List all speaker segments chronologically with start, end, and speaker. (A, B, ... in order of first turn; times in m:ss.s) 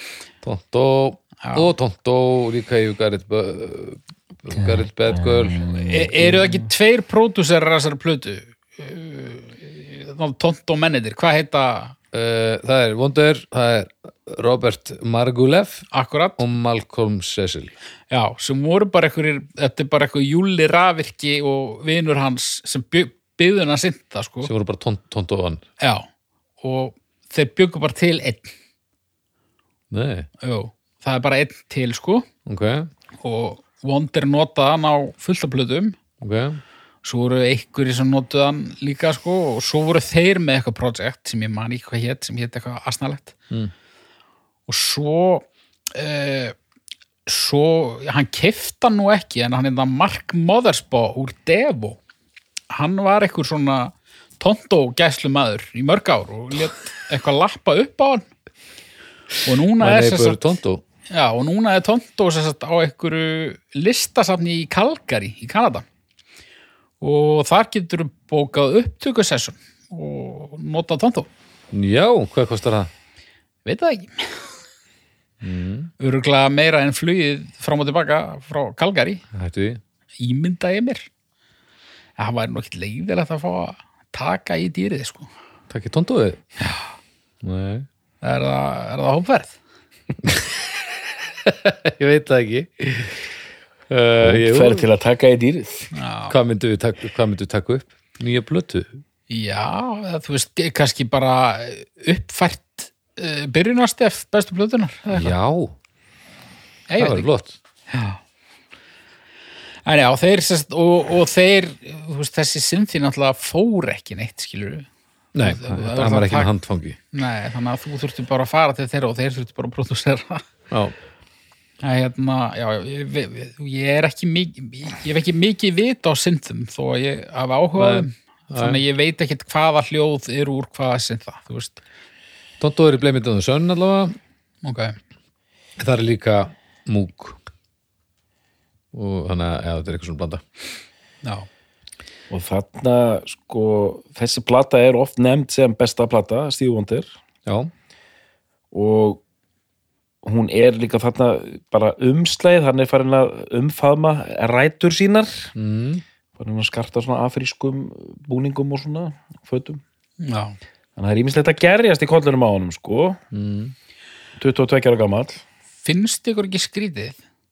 0:00.4-0:05.9 A
0:04.5-0:06.7 B
0:05.8-0:12.0 C
0:12.1-0:17.7 A
0:15.9-0:16.4 C
0:18.1-0:24.5 C
0:24.4-0:25.6 A
0:25.8-0:26.1 C
0:26.6-0:28.5 C
0:29.9-0:30.3 A
0:30.4-0:32.3 C
0:32.4-0:32.9 A
0:33.2-0:36.0 C
0:36.2-0:36.6 A
0:37.0-0:43.3 C
0:44.7-0:46.5 C
0:47.3-0:52.0 C
0:52.7-0:58.3 C
0:59.4-1:00.5 C
0:59.8-1:00.8 A
1:01.1-1:05.8 C
1:07.0-1:11.3 C
1:11.7-1:12.9 A
1:13.6-1:14.5 C
1:15.4-1:15.9 A
1:16.0-1:19.2 C
1:19.3-1:19.8 A
1:20.2-1:21.1 C
1:22.2-1:25.3 C
1:25.7-1:26.4 A
1:27.4-1:27.8 A
1:28.2-1:29.6 C
1:30.2-1:30.5 A
1:31.4-1:33.2 A
1:33.9-1:34.8 A
1:34.2-1:35.9 B
1:35.9-1:36.4 C
1:36.3-1:39.0 A
1:39.3-1:45.3 C
1:45.1-1:45.7 A
1:46.9-1:47.3 C
1:47.0-1:47.5 A
1:47.9-1:48.2 C
1:49.8-1:54.9 C
1:55.3-1:57.0 A
1:55.4-1:56.5 C
1:57.1-2:00.4 C
2:01.8-2:11.8 C
2:07.8-2:08.8 A
2:12.6-2:14.1 A
2:14.6-2:15.0 C
2:15.8-2:17.4 A
2:18.9-2:20.4 A
2:22.3-2:27.1 B
2:27.4-2:27.7 A
2:28.7-2:29.2 B
2:30.2-2:35.5 B
2:35.6-2:36.0 A
2:36.4-2:39.8 B
2:40.2-2:40.6 C
2:41.0-2:43.2 B
2:43.3-2:43.7 A
2:44.4-2:45.4 B
2:45.8-2:47.2 C